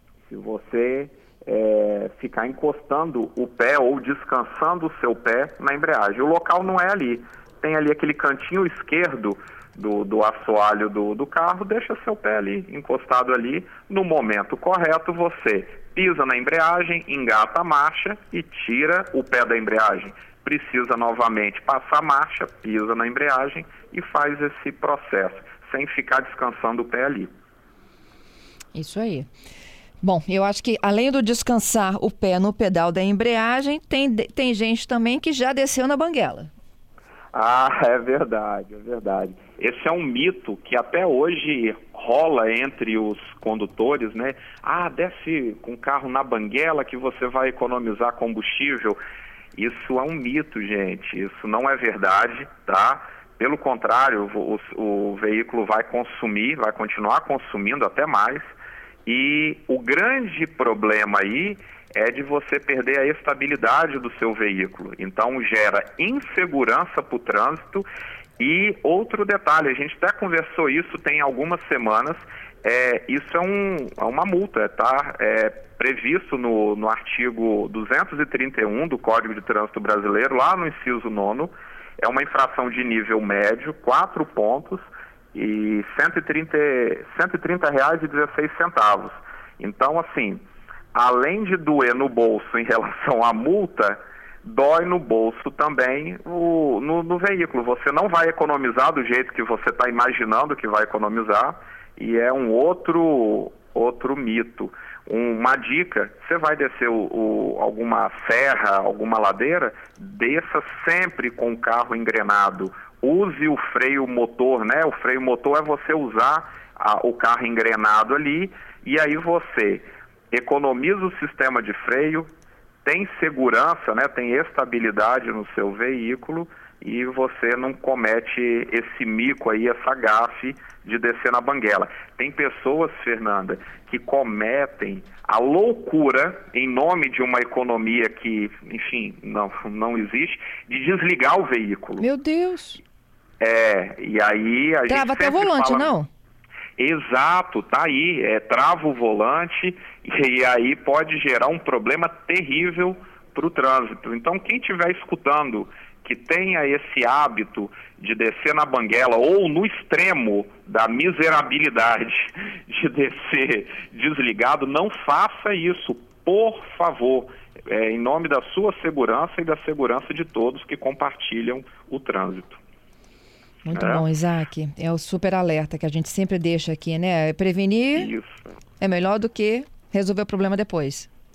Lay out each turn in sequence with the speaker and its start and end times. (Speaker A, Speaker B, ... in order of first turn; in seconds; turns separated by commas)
Speaker A: 0.3-27.3, Speaker B: 28.7-29.3, Speaker B: 30.0-36.5, Speaker A: 37.3-49.0, Speaker A: 49.5-67.9, Speaker A: 68.4-90.4, Speaker A: 90.9-122.3, Speaker A: 122.8-142.1, Speaker B: 142.0-142.8, Speaker A: 143.4-145.9, Speaker B: 144.9-146.1, Speaker A: 146.8-172.6, Speaker B: 173.7-178.1, Speaker A: 173.7-174.1, Speaker A: 177.9-178.4, Speaker B: 178.8-181.1